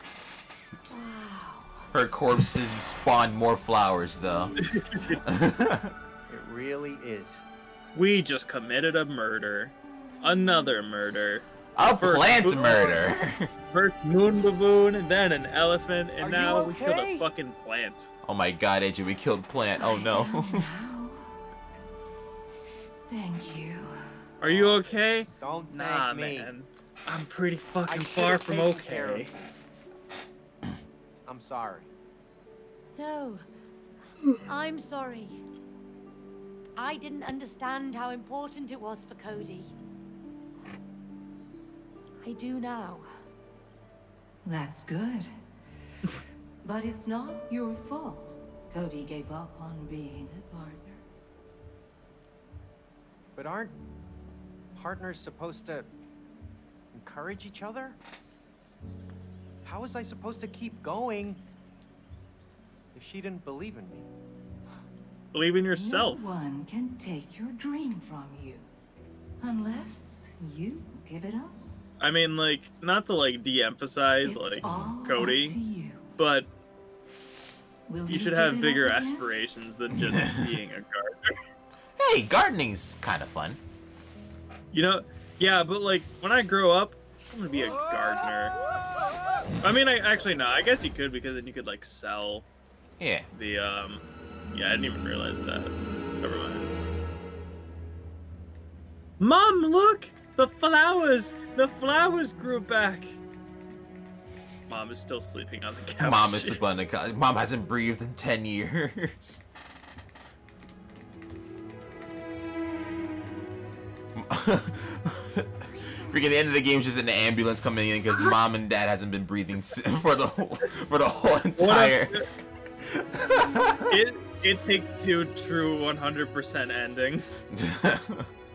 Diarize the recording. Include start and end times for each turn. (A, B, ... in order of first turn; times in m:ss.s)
0:01.0-0:01.8 A
0:01.9-0:04.6 B
0:04.6-0:05.2 C
0:05.2-0:06.0 B
0:06.3-0:07.4 D
0:08.0-0:13.1 C
0:11.8-0:13.5 B
0:13.7-0:18.1 C
0:16.2-0:17.2 D
0:18.2-0:20.7 B
0:19.8-0:21.4 A
0:23.1-0:24.5 A
0:24.4-0:29.3 C
0:25.4-0:26.5 D
0:27.9-0:29.4 D
0:31.2-0:31.9 D
0:33.0-0:33.4 E
0:34.4-0:35.4 E
0:36.8-0:39.7 E
0:42.2-0:43.1 E
0:44.4-0:45.3 A
0:46.6-0:51.0 A
0:53.4-0:53.8 D
0:54.8-0:55.9 D
0:56.9-0:58.0 D
0:59.6-1:01.4 D
1:02.9-1:04.1 D
1:05.3-1:06.3 C
1:05.7-1:08.7 A
1:09.4-1:11.6 A
1:12.0-1:15.6 C
1:14.2-1:16.0 A
1:16.2-1:16.5 C
1:17.9-1:19.3 A
1:18.1-1:21.4 C
1:20.0-1:20.6 B
1:22.0-1:23.6 B
1:24.7-1:28.6 C
1:27.6-1:28.8 D
1:29.6-1:32.4 C
1:33.0-1:33.3 B
1:33.3-1:36.8 C
1:39.2-1:43.2 C
1:44.7-1:46.6 C
1:46.0-1:49.4 B
1:54.2-2:02.2 B
1:58.1-1:58.4 C
2:01.6-2:02.3 C
2:02.8-2:03.9 B
2:03.9-2:07.3 C
2:07.5-2:08.3 B